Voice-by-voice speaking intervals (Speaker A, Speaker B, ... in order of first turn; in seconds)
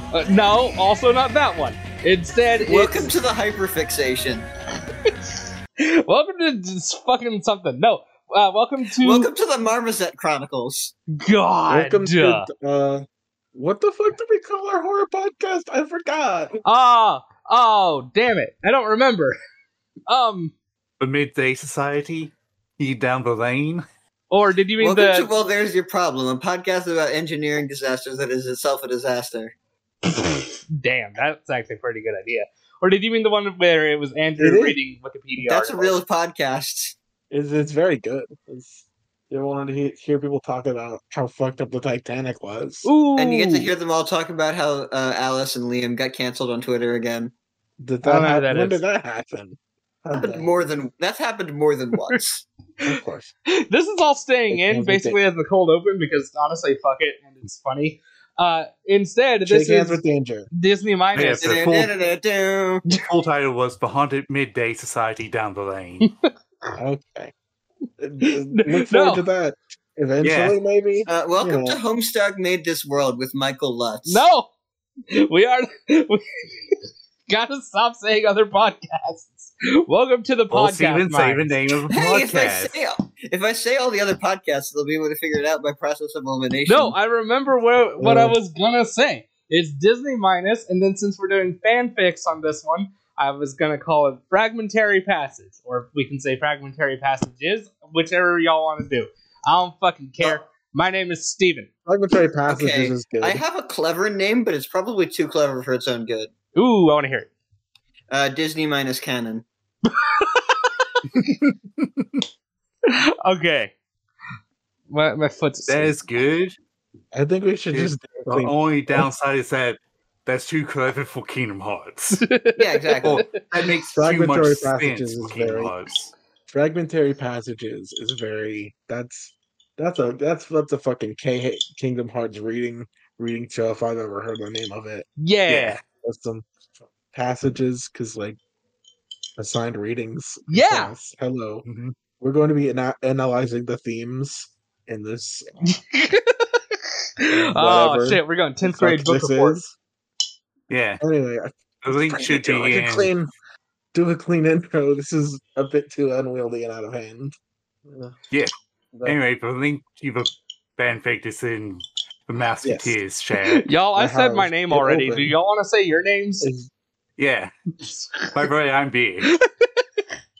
Speaker A: 0.1-3.1, 5.8-9.3, 11.2-12.5, 16.6-19.4, 20.1-20.5, 24.3-25.3, 30.7-36.0, 42.8-43.7, 48.0-48.8, 53.7-60.0, 60.5-61.6, 68.2-69.2, 74.0-74.5, 75.1-76.8, 77.3-81.6, 86.7-101.7, 106.5-107.3, 109.9-110.8, 112.9-113.7, 114.9-116.0, 122.2-123.3, 135.2-135.8, 140.5-140.9, 145.7-149.6, 163.6-166.5, 169.3-169.8
Speaker B: 2.6-4.5, 9.0-10.9, 24.8-29.5, 35.4-37.0, 43.2-47.3, 50.2-52.5, 61.4-62.9, 71.0-74.3, 81.9-87.0, 102.5-106.3, 108.1-109.5, 122.6-123.3
Speaker C: 11.7-16.6, 34.4-34.8, 37.3-42.9, 47.8-50.5, 52.9-53.3, 54.5-55.2, 59.5-60.5, 66.8-67.3, 68.0-71.8, 88.0-88.4, 101.9-103.4, 117.1-119.1, 123.9-125.7, 126.5-138.4, 139.4-141.7, 142.2-145.8, 147.3-149.7, 151.0-153.3, 153.9-158.2, 162.6-163.0, 164.0-165.3, 166.4-166.7
Speaker D: 21.0-23.8, 61.1-61.9, 63.0-66.1, 70.2-70.6, 80.5-82.8, 115.7-116.6, 117.7-122.3, 123.0-126.1, 141.7-141.9, 150.7-151.0, 151.8-153.1, 159.1-163.7, 167.2-167.5, 168.2-169.3